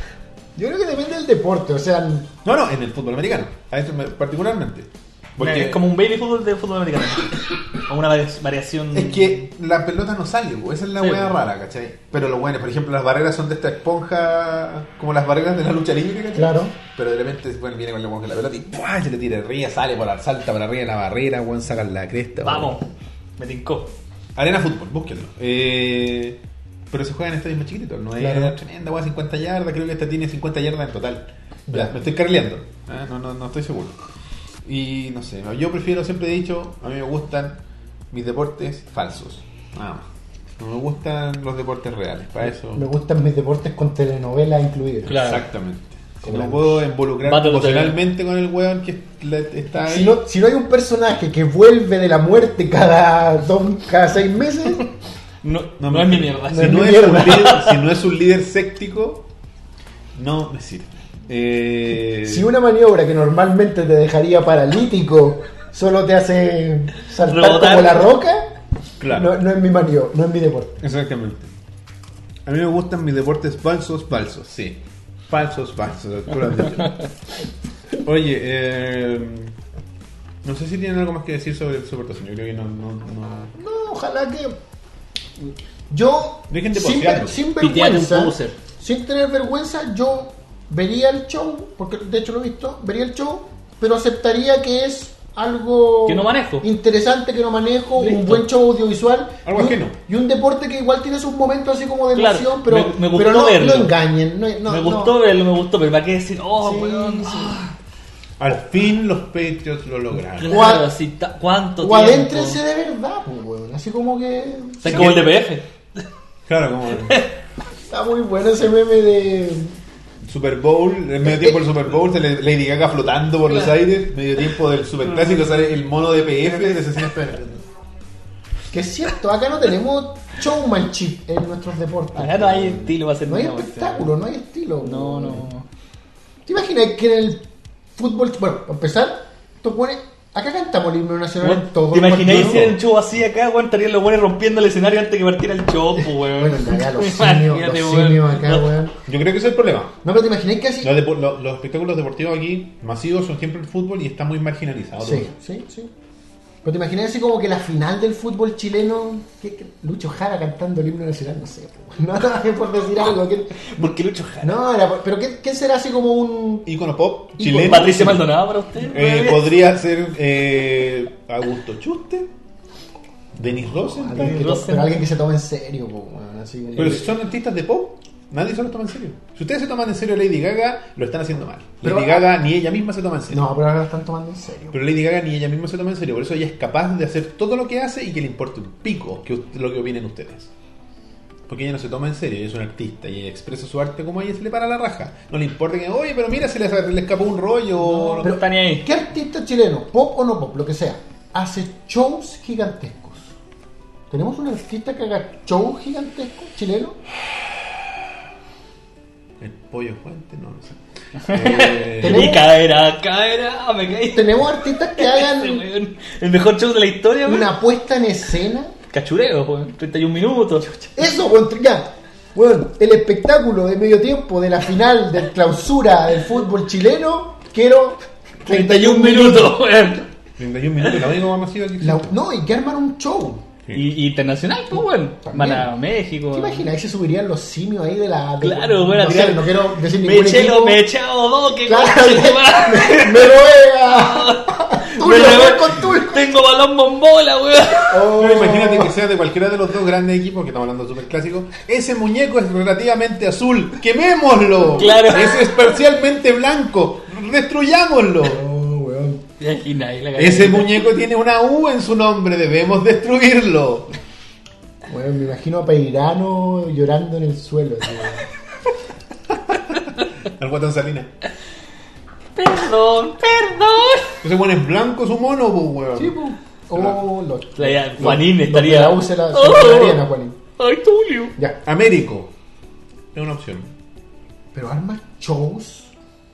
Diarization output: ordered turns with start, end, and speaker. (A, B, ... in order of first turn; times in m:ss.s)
0:00.6-0:02.3 A
0:02.4-0:05.8 B
0:05.4-0:09.4 C
0:08.9-0:22.8 B
0:11.0-0:11.4 C
0:16.3-0:16.7 A
0:22.4-0:22.8 C
0:23.4-0:23.9 C
0:24.4-0:26.4 B
0:26.9-0:34.0 B
0:28.2-0:28.5 A
0:31.7-0:31.9 A
0:34.6-0:37.6 B
0:38.1-0:40.1 B
0:40.6-0:42.9 B
0:42.7-0:45.2 A
0:45.0-0:45.4 C
0:45.1-0:50.2 B
0:46.2-0:46.8 A
0:47.2-0:48.0 C
0:49.8-0:54.9 A
0:55.4-0:57.8 C
0:55.8-0:59.3 B
0:56.5-0:57.6 A
1:00.1-1:02.5 B
1:02.2-1:08.5 A
1:07.2-1:08.1 C
1:09.0-1:09.3 B
1:09.1-1:10.8 A
1:10.8-1:11.5 B
1:12.4-1:17.0 B
1:18.0-1:19.5 B
1:20.4-1:23.5 B
1:23.6-1:24.6 A
1:25.9-1:45.2 A
1:26.5-1:27.4 B
1:27.6-1:28.6 C
1:36.0-1:36.6 C
1:38.0-1:38.4 C
1:39.4-1:40.0 B
1:42.1-1:43.9 C
1:44.7-1:47.7 C
1:46.6-1:47.6 A
1:48.4-1:50.8 B
1:50.4-1:52.6 C
1:50.4-1:50.9 A
1:51.8-1:55.2 A
1:54.8-1:55.7 C
1:54.9-1:55.3 B
1:56.5-1:57.2 B
1:57.0-1:57.3 C
1:57.9-1:59.7 A
2:00.2-2:07.6 B
2:01.2-2:01.8 A
2:06.6-2:06.8 A
2:08.7-2:15.5 A
2:12.1-2:14.1 C
2:14.8-2:15.7 C
2:16.4-2:17.4 A
2:18.0-2:22.7 A
2:21.4-2:28.7 C
2:22.3-2:22.7 B
2:26.2-2:28.9 A
2:29.0-2:30.0 B
2:30.0-2:30.9 A
2:30.8-2:35.3 B
2:35.0-2:35.9 A
2:36.6-2:43.6 A
2:43.6-2:44.6 C
2:44.4-2:46.7 A
2:46.6-2:52.3 B
2:47.4-2:48.1 A
2:47.5-2:49.5 C
2:53.3-2:54.4 B
2:53.7-2:57.1 A
2:54.2-2:55.0 C
2:56.7-3:03.4 B
3:01.8-3:02.2 A
3:03.3-3:04.8 A
3:04.7-3:10.5 B
3:11.5-3:18.3 B
3:17.8-3:18.9 C
3:18.2-3:23.3 A
3:24.1-3:27.0 A
3:29.4-3:32.4 B
3:31.2-3:37.5 C
3:32.0-3:32.5 A
3:34.1-3:35.6 A
3:37.2-3:38.7 A
3:38.9-3:40.9 C
3:40.9-3:49.6 A
3:48.4-3:50.1 C
3:50.4-3:52.2 B
3:51.8-3:53.4 A
3:53.7-3:56.7 C
3:55.2-3:55.7 A
3:56.3-4:00.8 A
3:58.4-4:08.2 C
3:59.0-3:59.4 B
4:01.5-4:06.3 A
4:07.9-4:08.9 A
4:08.1-4:18.4 B
4:14.7-4:15.4 C
4:18.2-4:19.2 A
4:19.4-4:20.9 C
4:20.2-4:23.9 B
4:24.9-4:28.2 A
4:29.7-4:31.1 B
4:32.4-4:34.2 C
4:34.2-4:36.2 B
4:36.0-4:40.4 A
4:36.7-4:37.0 B
4:37.6-4:40.0 C
4:40.6-4:41.3 C
4:41.6-4:42.3 B
4:43.1-4:43.7 B
4:44.5-4:45.9 A